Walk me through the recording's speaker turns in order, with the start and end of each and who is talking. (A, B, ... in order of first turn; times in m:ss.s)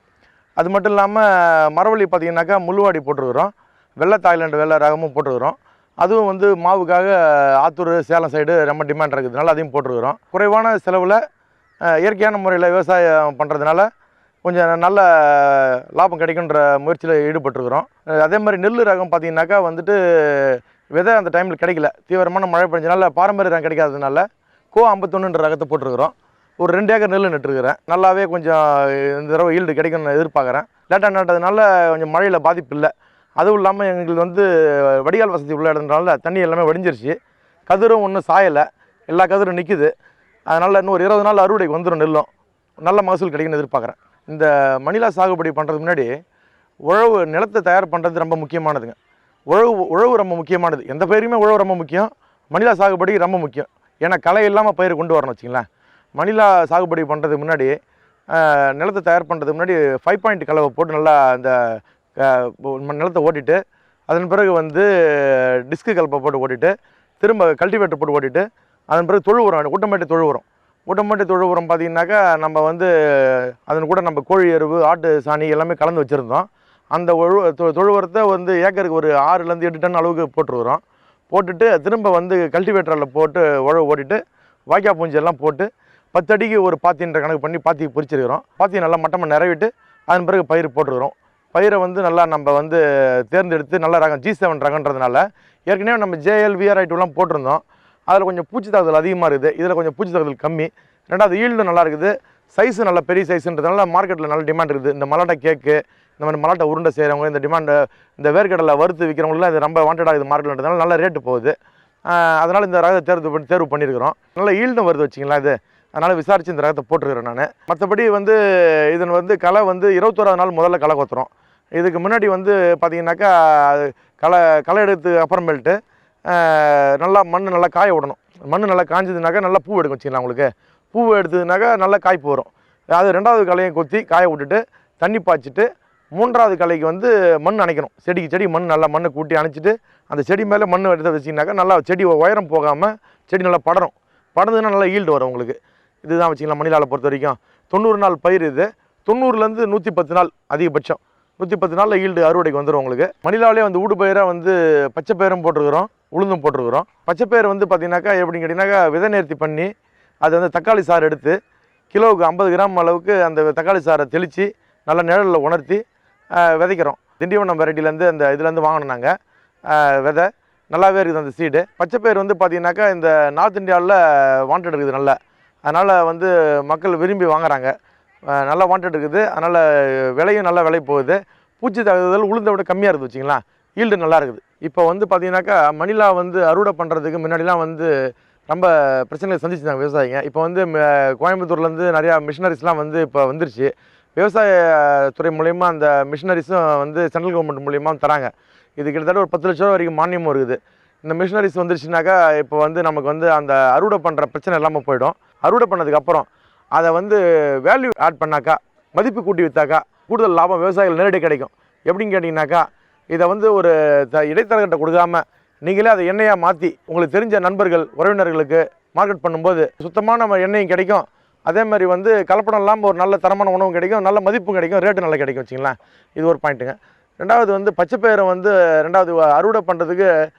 0:00.6-0:11.2 A
0:11.9-0:13.9 A
0:14.4-0:37.2 A
0:37.7-0:39.9 A
0:40.5-0:42.3 A
0:42.8-0:46.1 A
0:46.9-0:49.0 A
0:49.5-0:57.8 A
0:58.3-1:03.6 A
1:04.1-1:24.2 A
1:24.7-1:51.6 A
1:52.1-2:39.7 A
2:40.2-2:41.4 A
2:41.9-2:45.8 A
2:46.4-2:49.1 A
2:49.7-2:57.7 A
2:58.3-3:07.9 A
3:08.5-3:50.1 A